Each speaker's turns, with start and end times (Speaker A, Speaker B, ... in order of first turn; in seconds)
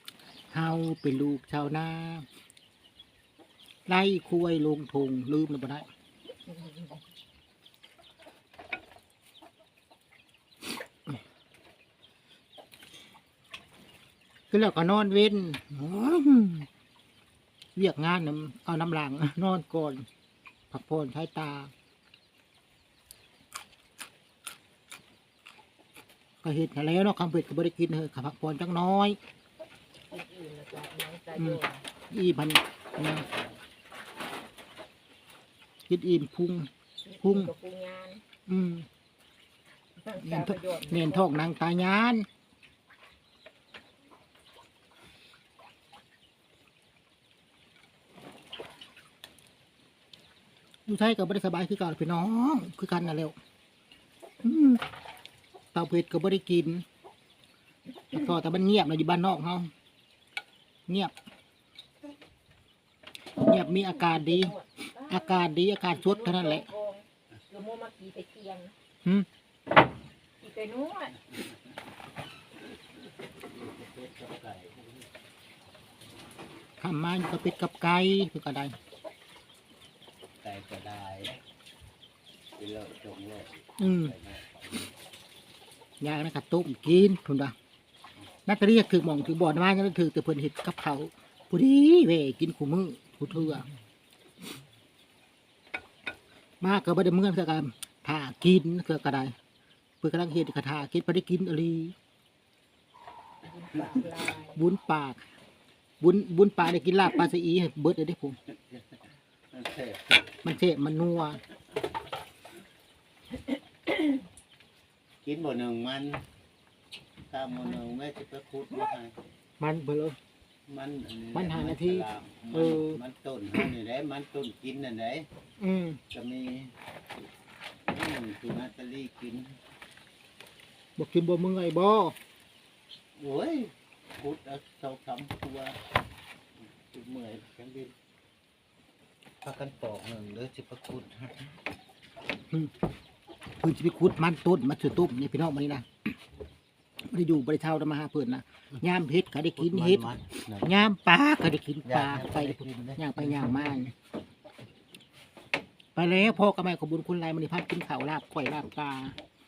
Speaker A: 0.5-2.3, 3.9-5.9, 14.5-16.7, 17.8-20.1, 20.7-21.7, 26.4-29.2, 31.4-33.2, 35.9-36.7, 37.2-37.5, 38.5-38.9, 40.2-42.3, 50.9-53.3, 54.4-54.8, 55.7-56.8, 58.1-59.7, 60.9-61.1, 63.4-64.5, 65.1-66.7, 76.8-78.8, 83.8-84.1, 86.0-87.5, 88.5-93.7, 96.6-99.3, 100.0-101.9, 104.5-105.2, 106.0-108.4, 110.4-111.4, 119.6-120.2, 121.3-123.0, 125.6-126.0, 131.0-132.2, 143.6-146.1, 147.1-150.1, 150.6-153.9, 155.9-159.2
Speaker B: 6.5-6.9, 30.1-31.9, 37.0-38.2, 40.0-41.2, 63.5-68.7, 70.4-71.2, 103.4-104.6, 113.9-114.2
Speaker C: 73.4-75.1, 80.4-81.4, 82.6-84.9, 108.5-109.0, 109.5-110.3, 115.2-116.2, 117.3-119.2, 120.7-125.3, 126.1-126.7, 127.8-129.6, 133.2-135.8, 136.8-137.9, 139.4-141.5, 149.6-150.7, 151.8-153.8